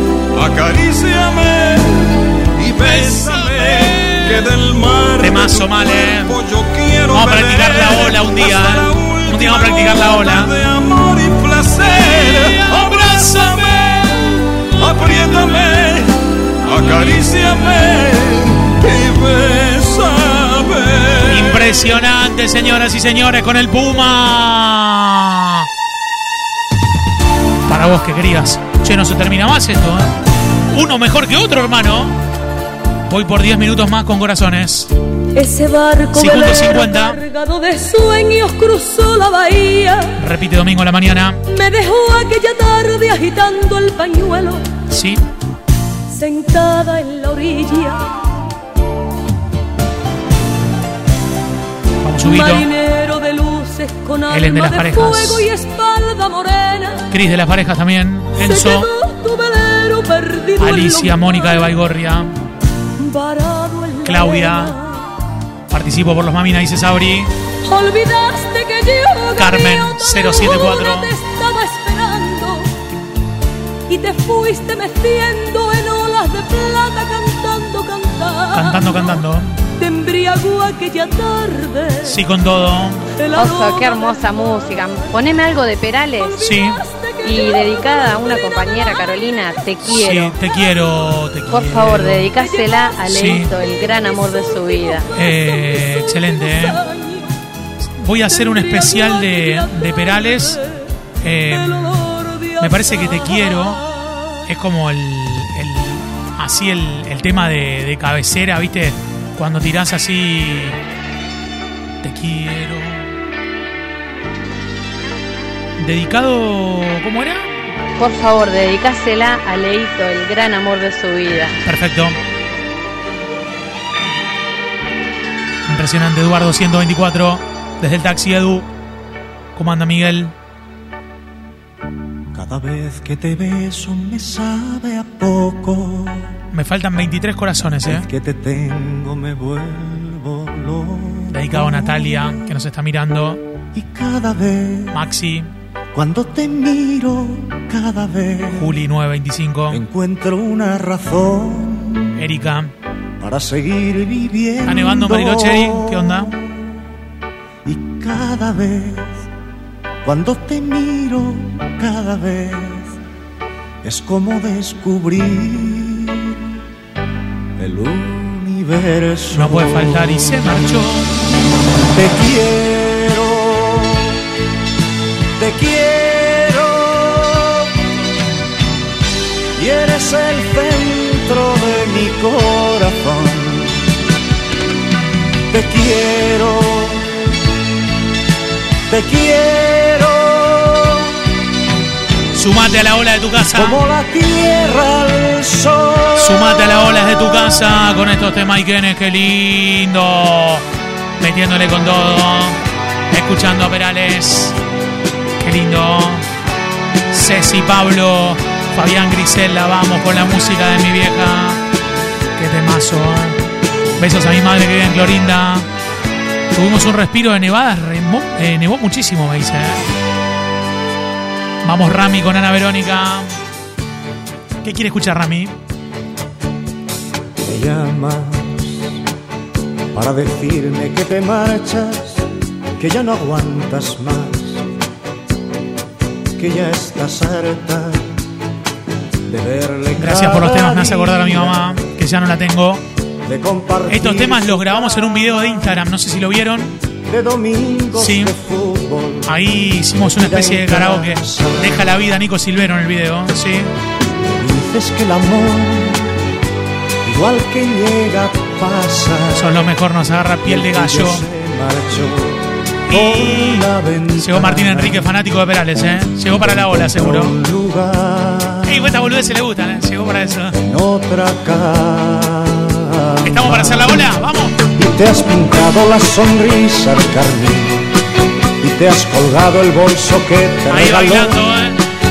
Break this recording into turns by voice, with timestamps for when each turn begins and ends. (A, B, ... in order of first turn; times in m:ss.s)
0:00.3-0:21.8 A
0:02.8-0:04.4 B
0:05.2-0:06.4 B
0:07.1-0:10.5 B
0:12.2-0:13.8 B
0:21.3-0:25.7 B
0:27.7-0:30.1 B
0:30.7-0:32.2 B
0:33.1-0:34.9 B
0:35.4-0:40.2 C
0:36.1-0:37.2 B
0:40.2-0:41.4 B
0:41.5-0:44.7 C
0:44.9-0:45.2 B
0:46.1-0:48.1 C
0:52.0-0:52.7 B
0:52.2-0:57.1 C
0:54.3-0:55.5 B
0:57.1-0:58.9 B
0:58.4-1:01.7 C
1:00.6-1:02.3 B
1:03.0-1:05.1 C
1:04.0-1:04.8 B
1:05.7-1:07.3 B
1:07.6-1:12.7 C
1:09.4-1:11.1 B
1:13.9-1:19.2 C
1:18.5-1:19.6 B
1:19.8-1:22.2 C
1:22.0-1:23.0 B
1:23.2-1:24.2 C
1:23.4-1:26.4 D
1:26.4-1:26.8 B
1:26.5-1:28.0 C
1:27.2-1:30.4 D
1:29.8-1:32.3 B
1:31.5-1:35.1 D
1:33.1-1:33.5 B
1:35.1-1:36.8 B
1:37.0-1:37.3 C
1:38.0-1:40.6 B
1:39.0-1:39.5 C
1:41.2-1:43.8 B
1:44.5-1:50.8 B
1:52.0-1:53.1 B
1:55.8-1:57.5 B
1:58.0-2:01.6 D
2:01.6-2:02.2 B
2:05.7-2:08.7 B
2:09.6-2:10.3 B
2:12.3-2:16.3 E
2:16.5-2:18.1 B
2:17.8-2:22.5 E
2:21.3-2:23.4 B
2:23.7-2:25.0 E
2:24.9-2:25.5 B
2:25.9-2:28.8 E
2:28.5-2:29.8 B
2:29.7-2:32.1 E
2:32.2-2:32.7 B
2:33.2-2:36.6 E
2:34.6-2:36.3 B
2:37.6-2:39.2 E
2:40.0-2:43.0 E
2:43.8-2:46.4 E
2:47.6-2:50.8 E
2:49.3-2:51.1 B
2:51.9-2:54.2 E
2:55.4-2:57.7 E
2:59.6-3:03.8 E
3:05.5-3:07.2 E
3:08.9-3:11.2 E
3:12.3-3:13.8 B
3:13.5-3:16.9 E
3:16.2-3:20.6 B
3:21.2-3:22.6 B
3:23.1-3:24.6 B
3:25.4-3:26.3 B
3:27.1-3:31.6 B
3:32.4-3:33.4 B
3:34.0-3:35.7 B
3:36.5-3:39.8 B
3:41.6-3:43.3 B
3:44.6-3:45.5 B
3:47.5-3:49.0 E
3:49.9-3:52.2 E
3:52.8-3:54.6 E
3:56.4-3:58.1 E
3:59.3-4:01.8 E
4:00.0-4:02.8 B
4:03.3-4:05.8 E
4:03.9-4:06.7 B
4:07.1-4:11.9 E
4:08.0-4:08.3 B
4:09.3-4:13.7 B
4:14.2-4:16.1 E
4:17.0-4:19.7 E
4:19.3-4:21.2 B
4:20.4-4:25.1 E
4:22.9-4:23.7 B
4:24.2-4:27.3 B
4:26.3-4:28.9 E
4:28.7-4:30.5 B
4:30.5-4:34.1 E
4:33.2-4:34.6 B
4:34.8-4:37.9 E
4:38.6-4:41.4 E
4:40.7-4:41.8 B